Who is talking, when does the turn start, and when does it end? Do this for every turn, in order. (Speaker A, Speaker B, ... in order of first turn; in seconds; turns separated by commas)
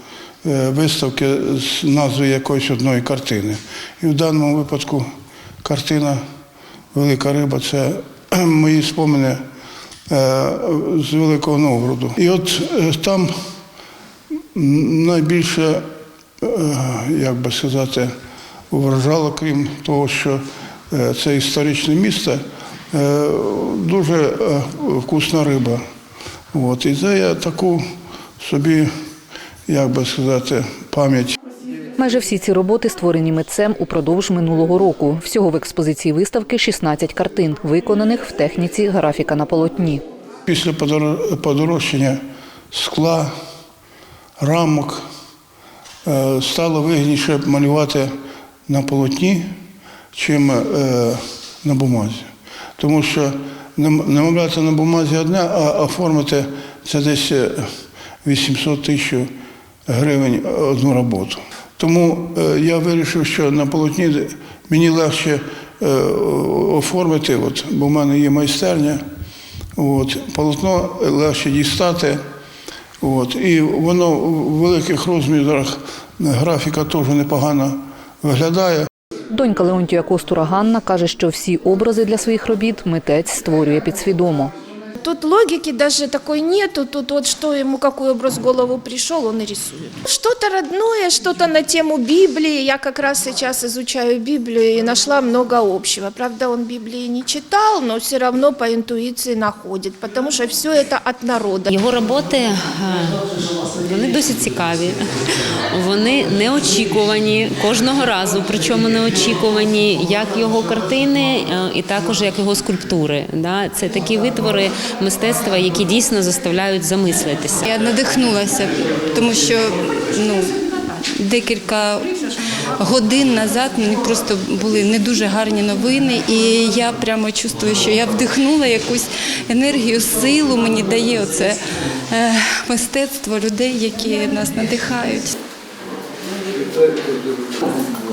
Speaker A: 0.4-5.1, Speaker A: 5.6-6.2, Speaker A: 6.9-9.4, Speaker A: 10.1-13.3, Speaker A: 14.5-15.8, Speaker A: 16.4-18.1, Speaker A: 18.7-25.8, Speaker A: 26.5-27.8, Speaker A: 28.4-28.9, Speaker A: 29.7-31.4, Speaker B: 32.0-40.0, Speaker A: 40.5-42.2, Speaker A: 42.7-43.3, Speaker A: 44.4-45.0, Speaker A: 46.0-48.1, Speaker A: 48.7-49.5, Speaker A: 50.1-57.7, Speaker A: 58.2-59.3, Speaker A: 59.9-69.0, Speaker A: 69.8-72.2, Speaker A: 73.0-78.9, Speaker B: 79.3-84.5, Speaker C: 85.0-101.7, Speaker D: 101.7-105.0, Speaker D: 105.7-117.6, Speaker E: 117.7-120.5, Speaker E: 121.2-122.2, Speaker E: 122.8-135.3